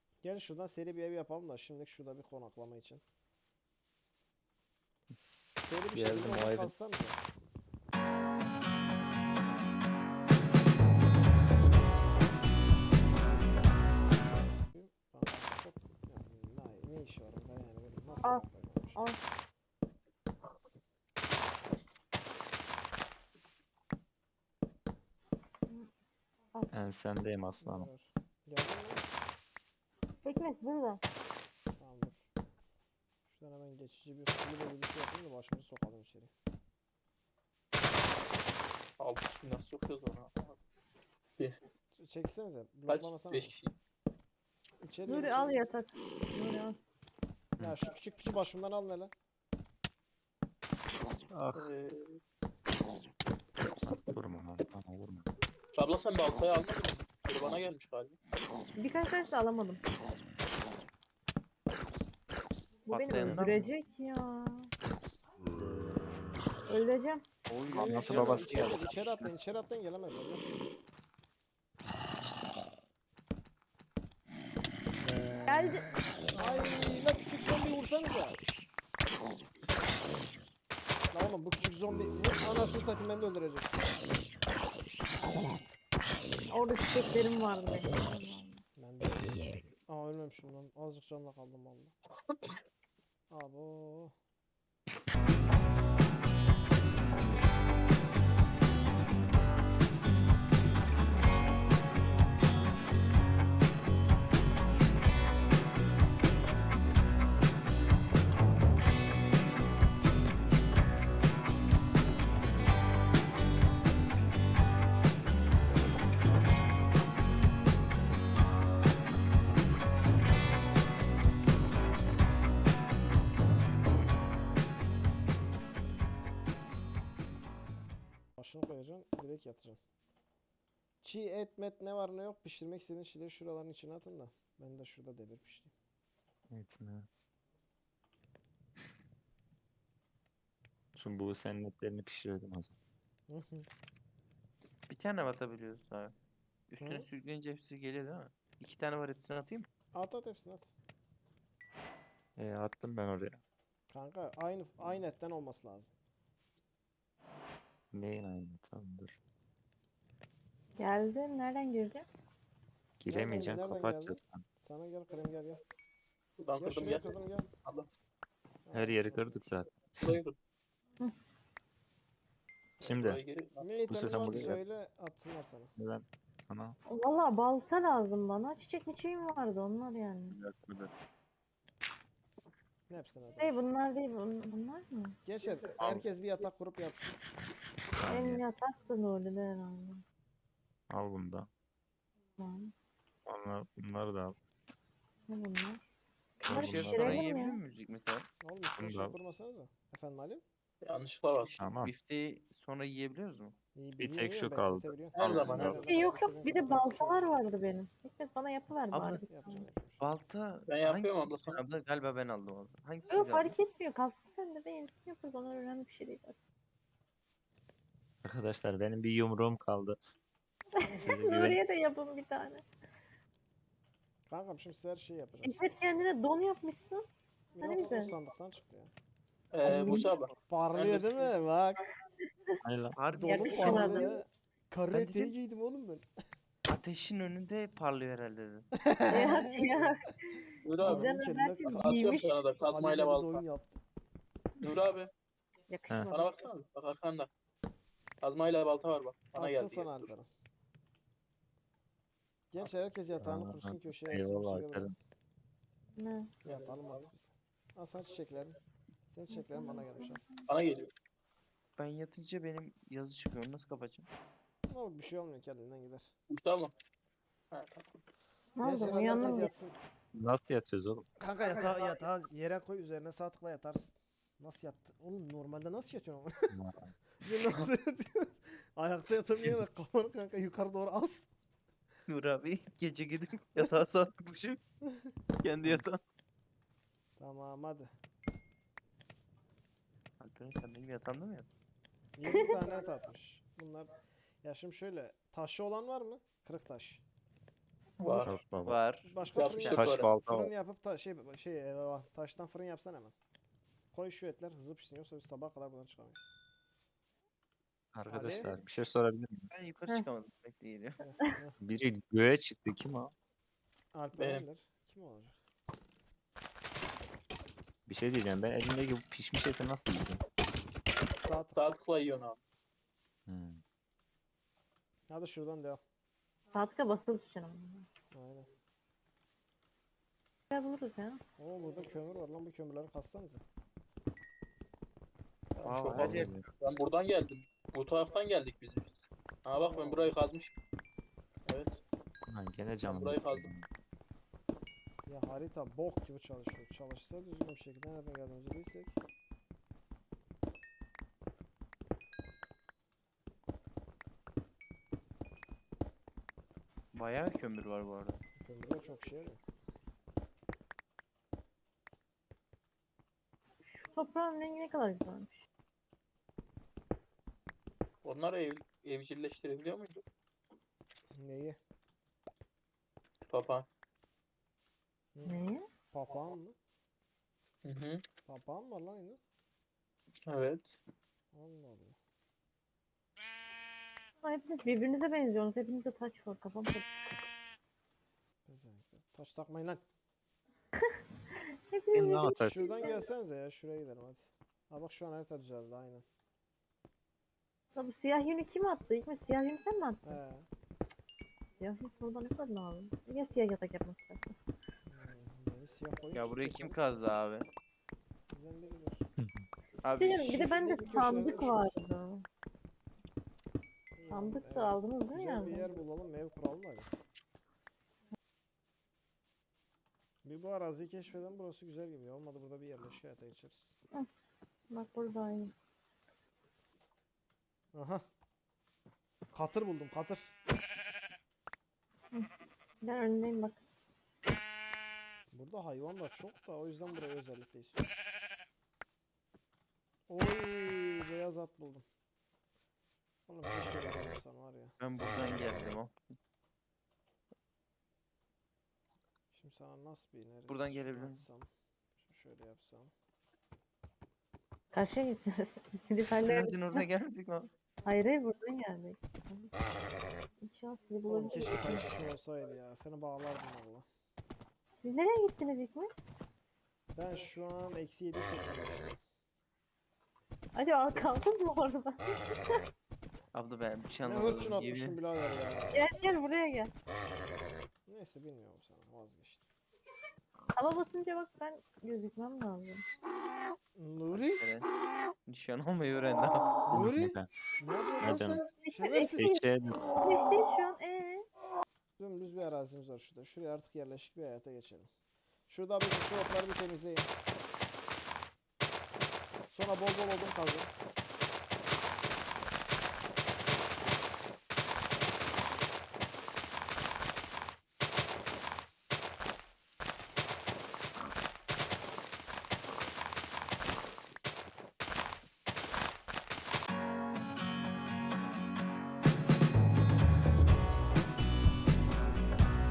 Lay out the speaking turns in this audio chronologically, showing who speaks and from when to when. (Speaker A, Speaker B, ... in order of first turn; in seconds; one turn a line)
Speaker A: 0.2-3.0
Speaker A: 5.6-7.2
Speaker B: 5.9-6.7
Speaker A: 14.6-19.0
Speaker B: 26.7-27.9
Speaker A: 27.6-29.0
Speaker C: 30.2-31.0
Speaker A: 31.8-32.3
Speaker A: 33.3-36.3
Speaker D: 39.0-40.6
Speaker A: 41.9-43.5
Speaker D: 42.9-43.7
Speaker A: 44.8-45.6
Speaker C: 45.1-46.7
Speaker A: 47.6-49.1
Speaker B: 51.3-51.6
Speaker D: 51.5-52.2
Speaker B: 53.8-55.3
Speaker D: 55.7-58.2
Speaker C: 58.8-59.8
Speaker C: 62.9-64.7
Speaker E: 62.9-63.6
Speaker C: 66.7-67.2
Speaker E: 67.5-69.3
Speaker A: 67.7-70.6
Speaker B: 67.8-68.8
Speaker C: 75.5-75.9
Speaker A: 76.3-78.4
Speaker A: 81.1-83.8
Speaker C: 86.5-88.6
Speaker A: 88.8-89.3
Speaker A: 89.9-91.9
Speaker A: 93.3-94.1
Speaker A: 128.4-129.8
Speaker A: 131.0-135.7
Speaker B: 136.5-137.1
Speaker B: 140.9-142.7
Speaker A: 143.3-143.7
Speaker E: 144.9-146.1
Speaker E: 146.7-149.7
Speaker A: 146.8-147.1
Speaker A: 149.9-150.7
Speaker B: 152.4-153.4
Speaker A: 153.9-155.9
Speaker B: 157.9-159.1
Speaker C: 160.8-162.1
Speaker B: 163.0-164.4
Speaker A: 163.1-165.6
Speaker D: 166.4-167.9
Speaker A: 166.6-167.5
Speaker A: 168.7-169.4
Speaker B: 168.7-170.2
Speaker D: 170.0-170.3
Speaker D: 172.8-173.7
Speaker B: 172.8-173.2
Speaker A: 173.6-175.7
Speaker B: 173.9-174.6
Speaker B: 175.8-176.8
Speaker C: 176.9-180.4
Speaker B: 180.3-180.9
Speaker A: 182.9-183.6
Speaker C: 183.4-185.2
Speaker A: 185.2-187.2
Speaker B: 188.0-188.4
Speaker C: 188.1-190.0
Speaker B: 190.9-191.5
Speaker C: 192.4-192.7
Speaker B: 193.3-194.3
Speaker C: 195.3-195.8
Speaker C: 196.4-197.6
Speaker B: 196.4-197.3
Speaker E: 196.5-198.3
Speaker A: 198.4-200.4
Speaker B: 198.8-199.2
Speaker D: 200.8-201.5
Speaker E: 201.4-203.5
Speaker B: 201.6-201.9
Speaker A: 203.7-207.3
Speaker B: 204.0-205.8
Speaker D: 205.1-205.8
Speaker C: 205.8-209.6
Speaker E: 208.9-209.2
Speaker A: 209.3-210.0
Speaker E: 210.0-213.5
Speaker D: 210.7-211.6
Speaker C: 213.1-216.3
Speaker B: 218.2-220.0
Speaker C: 220.8-222.6
Speaker A: 220.9-221.1
Speaker B: 221.0-221.6
Speaker A: 224.3-225.6
Speaker C: 225.4-227.0
Speaker A: 227.5-228.9
Speaker C: 227.6-228.1
Speaker D: 229.5-231.3
Speaker C: 229.6-230.1
Speaker A: 230.5-231.8
Speaker B: 232.6-232.9
Speaker E: 233.0-234.1
Speaker A: 233.1-236.0
Speaker C: 233.2-234.2
Speaker E: 234.9-235.3
Speaker E: 236.7-238.7
Speaker A: 238.8-239.9
Speaker C: 239.1-242.3
Speaker D: 240.6-241.1
Speaker A: 240.8-243.8
Speaker D: 241.7-243.4
Speaker D: 244.6-245.1
Speaker C: 245.7-246.3
Speaker D: 246.1-247.3
Speaker D: 248.2-250.1
Speaker A: 249.3-250.3
Speaker A: 252.5-254.9
Speaker B: 253.2-254.9
Speaker C: 256.0-256.3
Speaker A: 256.4-258.6
Speaker D: 256.4-257.0
Speaker A: 259.1-260.2
Speaker C: 259.3-260.2
Speaker D: 260.5-260.9
Speaker E: 261.8-264.1
Speaker A: 264.7-266.1
Speaker D: 266.3-266.7
Speaker D: 267.5-267.9
Speaker C: 268.6-269.5
Speaker A: 268.6-269.8
Speaker B: 270.1-271.1
Speaker A: 271.2-276.5
Speaker B: 276.5-276.9
Speaker A: 277.2-281.3
Speaker E: 282.1-284.6
Speaker E: 285.4-286.0
Speaker A: 287.2-287.9
Speaker E: 290.2-291.5
Speaker A: 292.2-297.0
Speaker D: 298.0-298.4
Speaker B: 298.1-298.8
Speaker E: 298.6-299.8
Speaker A: 299.0-303.1
Speaker D: 299.3-300.1
Speaker B: 299.7-300.5
Speaker A: 303.9-306.2
Speaker B: 307.9-309.5
Speaker A: 308.1-308.5
Speaker E: 309.5-311.0
Speaker A: 311.0-311.6
Speaker B: 311.6-313.1
Speaker A: 313.9-315.4
Speaker D: 314.1-314.4
Speaker B: 317.9-320.2
Speaker A: 321.2-321.7
Speaker D: 321.5-322.4
Speaker B: 323.3-323.6
Speaker A: 325.1-325.8
Speaker C: 326.5-327.9
Speaker A: 328.1-328.5
Speaker C: 330.5-331.2
Speaker A: 331.4-333.4
Speaker D: 335.6-340.5
Speaker E: 335.6-336.3
Speaker B: 335.9-336.5
Speaker A: 339.6-340.1
Speaker D: 341.4-341.8
Speaker B: 342.3-343.7
Speaker D: 342.8-343.5
Speaker A: 345.1-349.0
Speaker E: 356.9-358.2
Speaker A: 358.4-359.4
Speaker C: 363.7-365.4
Speaker D: 368.0-370.0
Speaker A: 371.1-371.6
Speaker D: 373.3-373.6
Speaker A: 375.1-375.4
Speaker C: 375.2-375.6
Speaker A: 375.9-376.6
Speaker D: 377.6-378.0
Speaker A: 378.2-379.2
Speaker D: 380.3-380.8
Speaker A: 381.3-381.9
Speaker C: 384.2-386.9
Speaker A: 388.4-389.8
Speaker C: 391.3-393.1
Speaker B: 391.9-392.7
Speaker A: 392.4-396.0
Speaker C: 397.7-400.2
Speaker A: 400.0-400.5
Speaker C: 401.6-404.3
Speaker A: 404.9-406.9
Speaker E: 406.1-407.5
Speaker A: 408.3-409.1
Speaker B: 409.2-409.5
Speaker E: 409.8-410.4
Speaker C: 409.9-412.2
Speaker A: 410.2-411.8
Speaker A: 413.9-416.9
Speaker C: 414.1-415.7
Speaker A: 420.2-423.8
Speaker C: 424.7-425.5
Speaker A: 427.7-428.0
Speaker A: 429.3-430.3
Speaker C: 432.8-433.6
Speaker A: 435.3-437.9
Speaker A: 440.1-441.8
Speaker A: 443.3-444.8
Speaker E: 444.8-446.0
Speaker A: 449.3-452.9
Speaker E: 450.5-451.2
Speaker C: 454.7-456.8
Speaker E: 456.1-457.5
Speaker C: 457.8-459.5
Speaker C: 460.4-461.9
Speaker A: 461.1-463.9
Speaker C: 464.8-465.9
Speaker A: 466.9-469.0
Speaker C: 470.5-472.6
Speaker E: 473.3-475.0
Speaker A: 474.0-475.9
Speaker C: 475.7-476.7
Speaker A: 477.9-479.4
Speaker C: 480.5-482.8
Speaker A: 483.8-484.4
Speaker E: 484.1-484.7
Speaker E: 485.3-486.6
Speaker A: 486.7-489.4
Speaker B: 486.7-487.3
Speaker B: 488.0-488.4
Speaker C: 488.6-489.1
Speaker B: 489.1-489.9
Speaker C: 490.0-491.2
Speaker A: 492.0-494.9
Speaker A: 495.5-497.1
Speaker A: 499.5-500.7